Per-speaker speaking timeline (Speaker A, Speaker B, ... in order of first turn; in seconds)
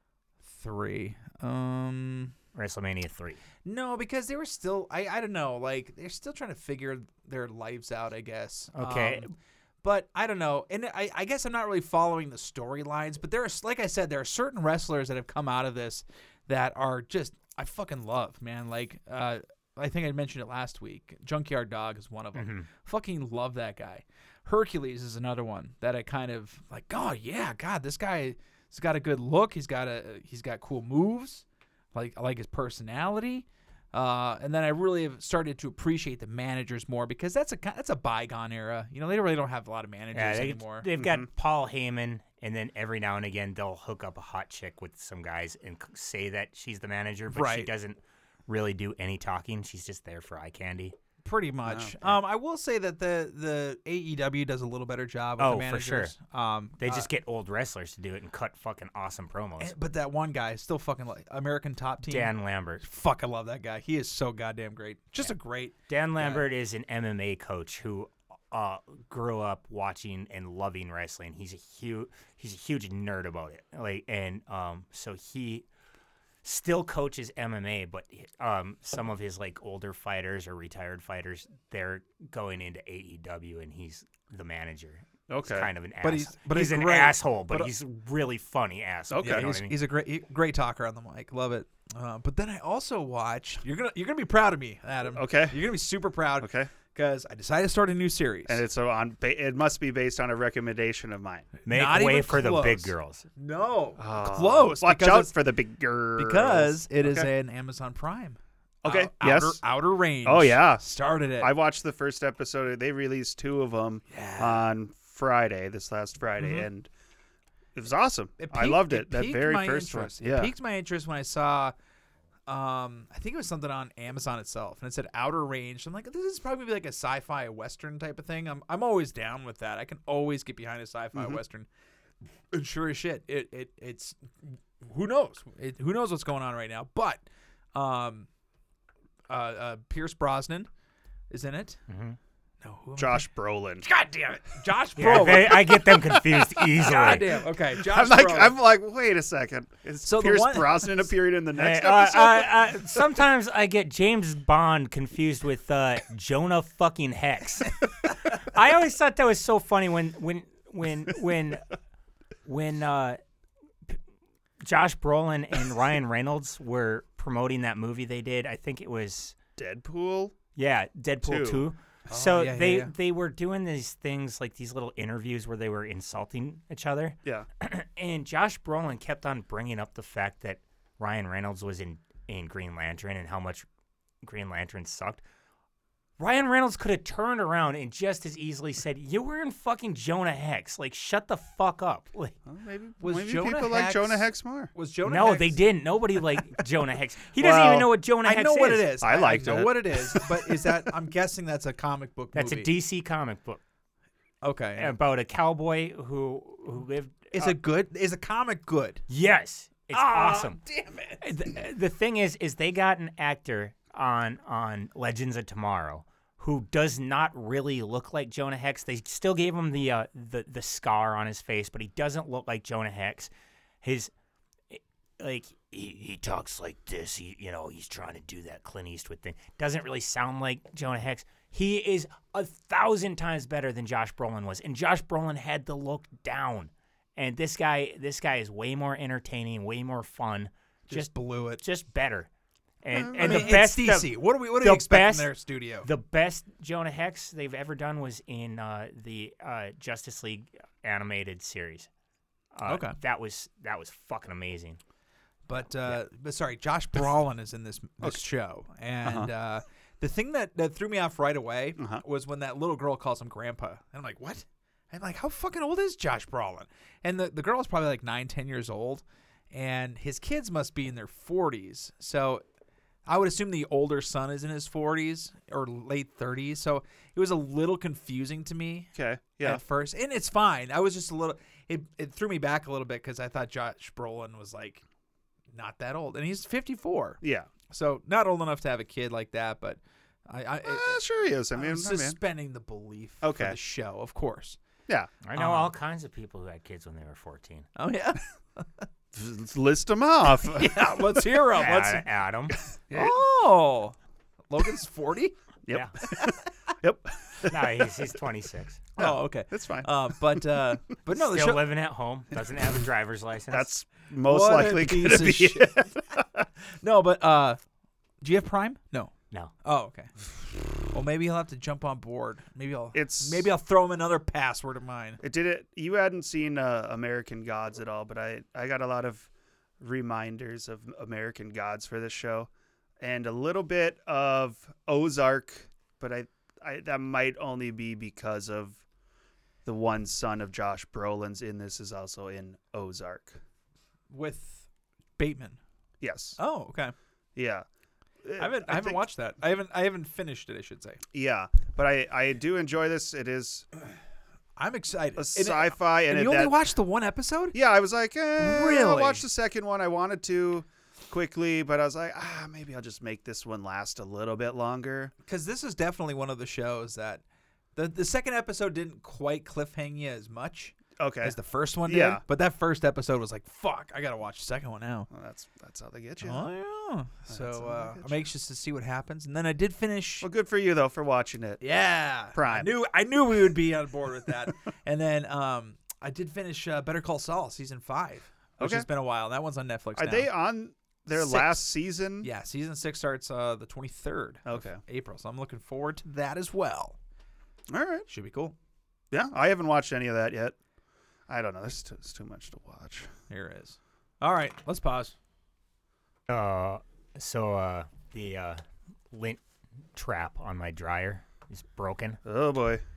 Speaker A: 0.5-2.3, 3.6-40.9, 47.3-47.7, 51.2-57.1, 59.6-66.4, 86.0-87.7, 89.2-98.6, 101.7-105.3, 106.2-111.5, 114.1-114.7, 118.4-121.7, 122.5-131.7, 132.5-137.2, 137.7-138.3, 139.3-140.7, 141.3-141.8, 142.6-143.3, 143.8-146.2, 146.8-148.6, 150.0-151.1, 172.1-172.9, 193.0-195.6, 198.2-202.7, 204.4-204.9, 207.3-209.0, 209.9-211.2, 240.9-241.6, 243.2-245.9, 252.7-252.9, 255.5-272.4, 273.1-278.9, 279.4-284.8, 285.5-291.0, 291.5-294.6, 295.3-295.7, 297.8-298.9, 300.4-302.0, 302.9-304.0, 304.5-305.3, 306.0-306.3, 309.0-311.7, 314.2-315.8, 316.8-317.6, 318.2-319.1, 319.6-320.3, 320.8-325.2, 344.1-344.6, 345.2-345.6, 346.4-346.9, 348.4-351.0, 354.6-357.6, 358.4-359.2, 365.2-367.2, 367.8-375.1, 376.2-380.3, 381.6-390.3, 391.1-391.6, 392.2-397.0, 398.1-398.5, 403.3-405.1
Speaker B: 2.5-3.4, 8.7-9.3, 22.3-22.7, 40.1-51.0, 55.4-56.1, 56.8-59.7, 62.0-62.8, 65.9-75.6, 76.4-89.7, 101.7-103.3, 141.9-142.2, 145.0-147.4, 151.5-161.6, 162.4-163.2, 164.6-169.4, 170.6-183.7, 184.2-185.2, 186.2-192.3, 195.0-198.9, 202.3-203.6, 204.8-207.6, 209.1-210.6, 211.2-223.3, 223.8-224.1, 224.7-242.3, 242.8-245.3, 245.8-251.9, 252.5-254.8, 295.2-297.7, 301.5-302.6, 307.5-308.9, 311.1-313.7, 406.3-408.6, 409.1-409.4, 409.9-412.2
Speaker C: 41.0-41.3, 51.6-51.9, 85.3-85.7, 89.1-89.5, 95.1-95.6, 96.4-96.7, 98.5-101.5, 104.0-107.3, 108.8-109.6, 110.2-110.8, 111.4-116.9, 117.7-120.5, 131.1-131.4, 143.0-143.8, 145.1-145.3, 146.8-152.8, 169.6-170.3, 171.2-171.7, 192.5-194.7, 197.4-197.9, 199.0-200.7, 242.9-243.6, 259.0-259.3, 261.8-262.0, 278.9-279.6, 287.2-287.5, 290.6-292.2, 293.2-293.6, 299.1-301.2, 302.9-303.2, 305.6-307.9, 308.9-310.5, 313.5-316.4, 322.9-323.5, 325.2-329.3, 329.8-338.8, 339.6-343.4, 346.0-346.4, 347.4-347.6, 348.2-349.0, 351.1-353.6, 355.1-356.6, 357.5-365.1, 371.0-372.2, 375.1-376.5, 377.3-378.3, 380.2-381.6, 382.3-382.7, 388.6-388.9, 390.0-392.3, 394.4-394.8, 397.7-398.1, 399.1-400.5, 401.3-403.1, 412.2-412.8